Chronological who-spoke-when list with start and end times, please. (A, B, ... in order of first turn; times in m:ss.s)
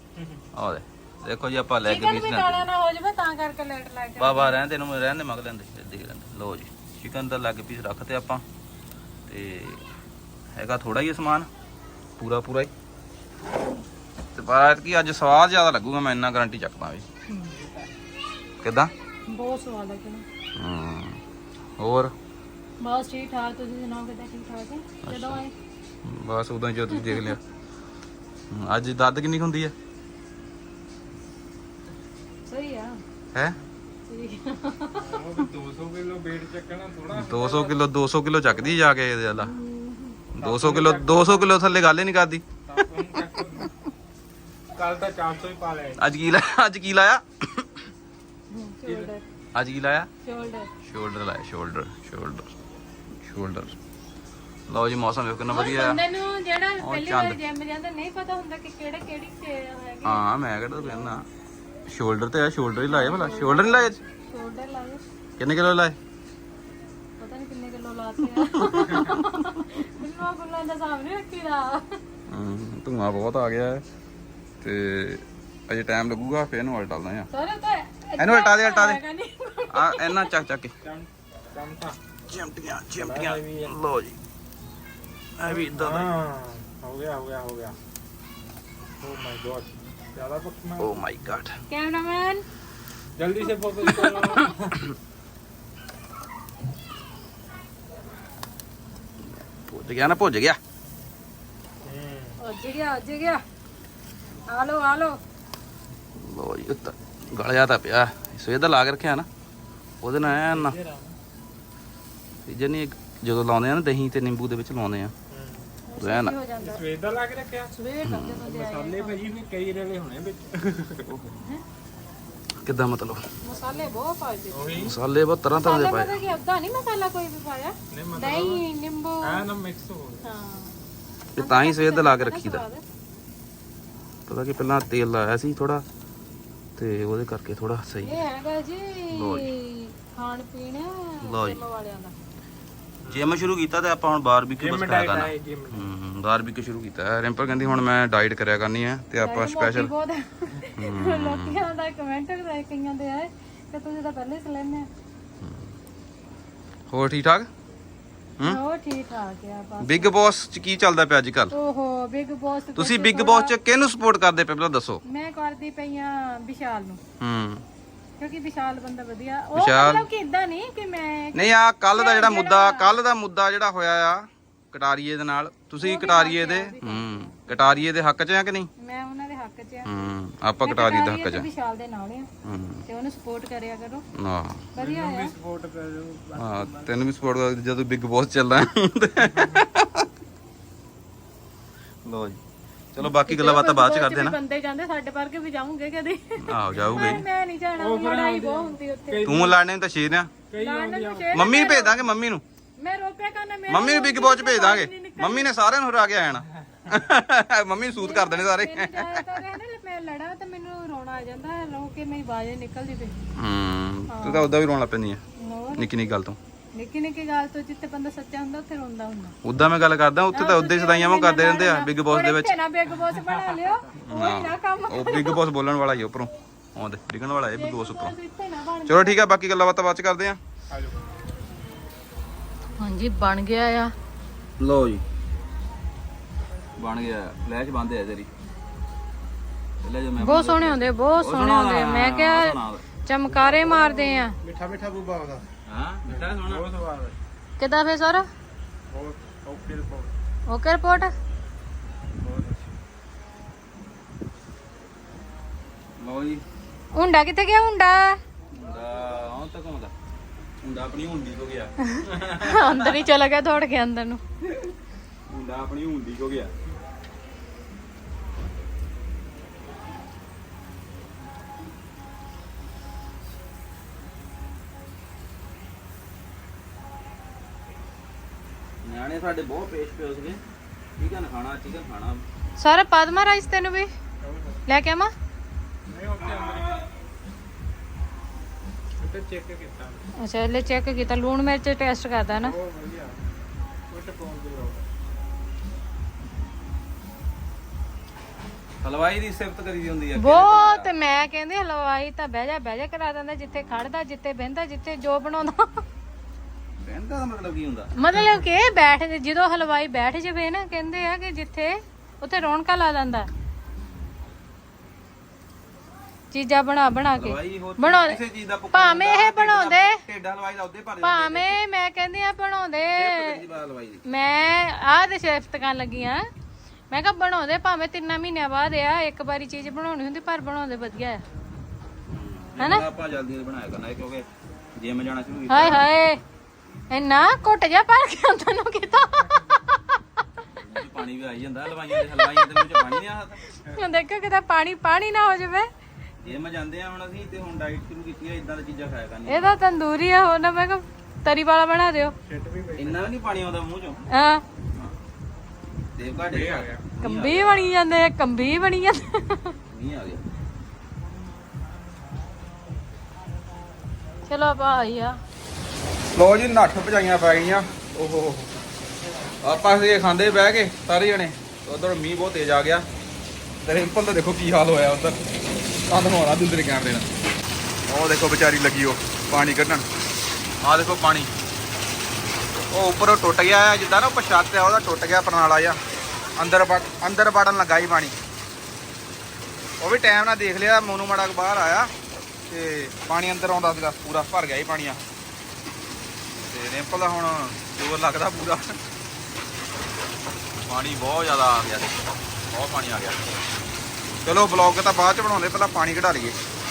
0:00.2-0:00.4 A
0:00.5-0:02.7 B
0:01.9-0:04.6 C
0:04.2-0:08.4 B
0:09.3-0:09.8 B
0:10.6-0:11.5 B
0:12.2-0:12.7 B
0:14.4-0:17.0 B
0:17.3-0:17.6 C
0:17.5-0:17.9 A
0:18.6-0:18.9 B
0:19.3-0:20.2 C
0:20.6-0:21.2 B
0:21.8-0:22.1 B
0:22.8-0:25.5 C
0:25.0-0:25.4 B
0:26.0-0:27.4 B
0:26.9-0:27.2 C
0:28.5-0:29.7 B
0:32.5-0:33.0 C
0:34.1-0:35.4 C
0:34.9-0:37.8 A
0:37.2-0:39.5 B
0:39.4-0:40.2 C
0:40.3-0:42.4 B
0:40.4-0:41.5 A
0:42.7-0:43.7 A
0:44.8-0:46.0 A
0:46.0-0:47.8 B
0:48.5-0:49.2 C
0:48.8-0:49.1 A
0:49.6-0:50.1 B
0:50.2-0:50.7 C
0:50.8-0:52.5 B
0:53.2-0:53.8 B
0:54.7-0:56.0 B
0:55.5-1:00.2 C
0:56.8-0:57.4 B
1:00.0-1:01.3 B
1:00.8-1:01.1 C
1:01.9-1:04.0 B
1:02.9-1:05.0 C
1:05.4-1:06.0 B
1:07.2-1:12.0 C
1:08.6-1:09.2 B
1:12.3-1:13.8 B
1:14.6-1:17.3 B
1:17.3-1:20.3 C
1:18.2-1:19.0 B
1:19.7-1:20.7 B
1:20.8-1:22.0 A
1:22.3-1:24.2 B
1:23.0-1:23.7 A
1:25.4-1:26.1 B
1:25.5-1:27.8 A
1:29.0-1:31.0 A
1:30.8-1:31.6 B
1:31.7-1:32.4 C
1:33.2-1:34.8 A
1:33.9-1:34.3 B
1:39.7-1:40.6 B
1:41.8-1:42.4 A
1:42.4-1:43.4 C
1:44.5-1:45.2 C
1:46.2-1:49.3 B
1:50.0-1:50.8 B
1:50.3-1:51.2 A
1:52.4-1:55.1 B
1:55.3-1:55.8 A
1:55.9-1:56.8 C
1:56.0-1:56.4 B
1:56.6-1:57.7 A
1:57.7-1:59.3 C
1:58.0-1:58.4 B
1:58.4-2:01.1 A
2:01.1-2:01.4 B
2:02.6-2:03.2 B
2:03.4-2:04.9 C
2:04.5-2:05.0 A
2:04.8-2:06.2 B
2:05.5-2:09.5 C
2:07.9-2:08.6 A
2:09.2-2:10.2 A
2:10.2-2:10.8 C
2:11.4-2:12.6 B
2:11.4-2:12.8 C
2:14.3-2:15.8 B
2:16.8-2:18.2 B
2:18.0-2:22.1 C
2:19.1-2:19.5 B
2:21.2-2:21.6 B
2:23.1-2:29.9 B
2:24.6-2:25.9 A
2:29.2-2:34.9 C
2:30.8-2:31.6 B
2:35.4-2:35.7 B
2:36.9-2:37.5 B
2:38.4-2:40.2 C
2:39.8-2:41.5 B
2:41.5-2:43.5 C
2:42.8-2:45.0 B
2:45.0-2:47.0 C
2:47.2-2:47.6 B
2:48.2-2:52.9 C
2:49.6-2:50.1 B
2:51.3-2:58.7 B
2:55.8-2:57.8 C
2:58.8-3:00.0 C
2:59.8-3:01.5 B
3:00.6-3:02.3 C
3:02.4-3:02.8 B
3:02.9-3:04.0 C
3:04.2-3:04.7 B
3:04.7-3:05.3 C
3:04.8-3:06.9 A
3:06.4-3:10.1 B
3:09.4-3:09.6 A
3:12.0-3:12.4 B
3:12.9-3:14.4 B
3:13.0-3:19.4 C
3:16.4-3:17.2 B
3:17.8-3:19.5 A
3:19.2-3:20.3 B
3:20.5-3:21.5 A
3:20.6-3:22.0 C
3:21.3-3:22.4 B
3:22.8-3:25.5 C
3:23.7-3:29.5 B
3:28.0-3:33.2 C
3:33.4-3:35.2 B
3:34.1-3:34.6 C
3:35.4-3:35.9 C
3:35.7-3:36.4 B
3:36.8-3:39.4 C
3:39.4-3:42.6 B
3:40.3-3:45.4 C
3:43.3-3:43.6 A
3:44.0-3:48.2 B
3:47.6-3:49.2 C
3:48.8-3:50.4 B
3:50.7-3:51.0 A
3:52.8-3:53.9 C
3:54.6-3:55.0 B
3:56.8-3:58.3 B
3:59.8-4:02.8 B
4:00.2-4:04.4 C
4:03.3-4:05.5 A
4:05.7-4:06.7 B
4:06.0-4:07.2 A
4:07.6-4:08.3 C
4:08.9-4:10.2 A
4:10.5-4:11.1 C
4:12.2-4:12.7 A
4:16.0-4:16.4 B
4:17.0-4:18.2 C
4:18.5-4:19.9 B
4:20.6-4:23.0 B
4:22.0-4:24.2 C
4:25.3-4:26.5 B
4:38.8-4:40.4 B
4:41.0-4:42.2 B
4:42.6-4:43.9 C
4:44.2-4:44.6 A
4:44.7-4:45.1 C
4:45.9-4:46.8 A
4:49.0-4:50.0 A
4:50.2-4:52.5 C
4:52.4-4:53.2 A
4:53.9-4:54.9 A
4:58.8-5:00.9 B
5:00.2-5:05.8 C
5:06.8-5:07.9 B
5:08.0-5:13.3 C
5:16.3-5:18.2 C
5:17.2-5:21.6 B
5:18.7-5:20.0 C
5:21.0-5:23.4 C
5:22.9-5:24.0 B
5:24.1-5:26.2 C
5:26.9-5:31.2 C
5:32.1-5:35.9 B
5:32.6-5:32.9 C
5:35.5-5:36.2 C
5:36.9-5:39.8 C
5:40.6-5:43.4 B
5:42.0-5:43.0 C
5:43.5-5:45.7 C
5:46.2-5:49.6 B
5:49.3-5:52.2 C
5:52.2-5:53.0 A
5:52.8-5:54.0 B
5:54.1-5:54.4 C
5:56.0-5:57.6 B
5:56.3-5:56.9 A
5:57.0-5:59.6 C
5:59.7-6:00.2 B
6:04.3-6:05.2 C
6:06.1-6:08.5 B
6:09.4-6:12.9 B
6:13.6-6:15.3 B
6:15.9-6:17.1 B
6:17.9-6:19.9 B
6:20.6-6:21.3 B
6:22.7-6:25.8 B
6:26.4-6:28.2 B
6:29.8-6:31.9 B
6:32.5-6:35.0 B
6:36.5-6:38.8 B
6:40.7-6:43.2 B
6:44.2-6:46.4 B